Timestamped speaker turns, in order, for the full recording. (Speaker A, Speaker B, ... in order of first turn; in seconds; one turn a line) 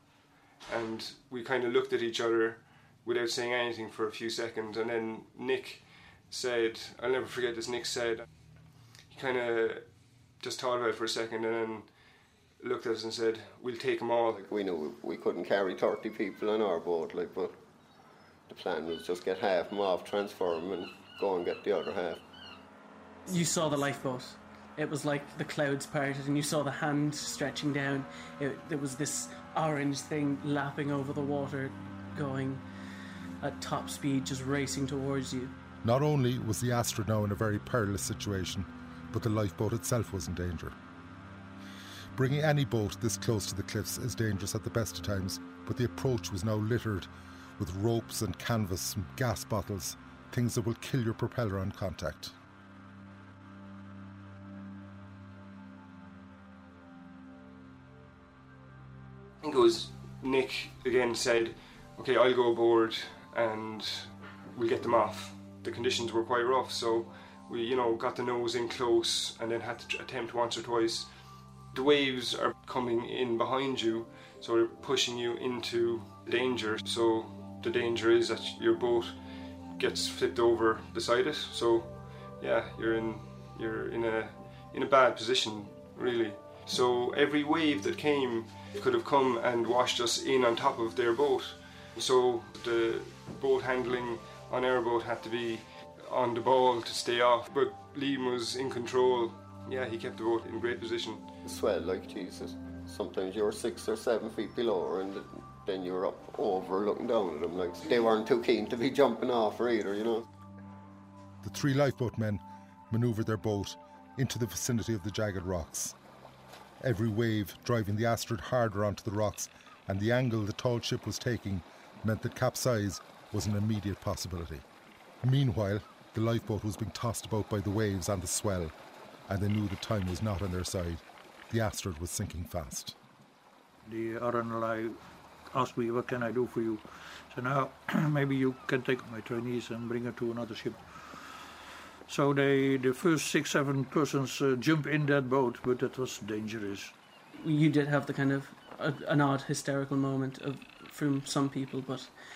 Speaker A: 0.7-8.3
Speaker A: 9.1-11.9
Speaker A: 12.6-14.4
Speaker B: 14.3-17.6
Speaker B: 18.5-22.2
Speaker C: 23.3-32.6
Speaker C: 33.4-35.5
Speaker D: 35.8-40.8
Speaker D: 42.2-52.3
Speaker A: 59.4-71.1
Speaker A: 71.7-79.2
Speaker A: 79.8-101.3
Speaker B: 101.5-110.3
Speaker D: 111.4-116.0
Speaker D: 116.8-124.7
Speaker D: 125.2-128.8
Speaker D: 129.3-133.0
Speaker E: 133.8-135.0
Speaker E: 135.5-146.9
Speaker C: 147.4-152.1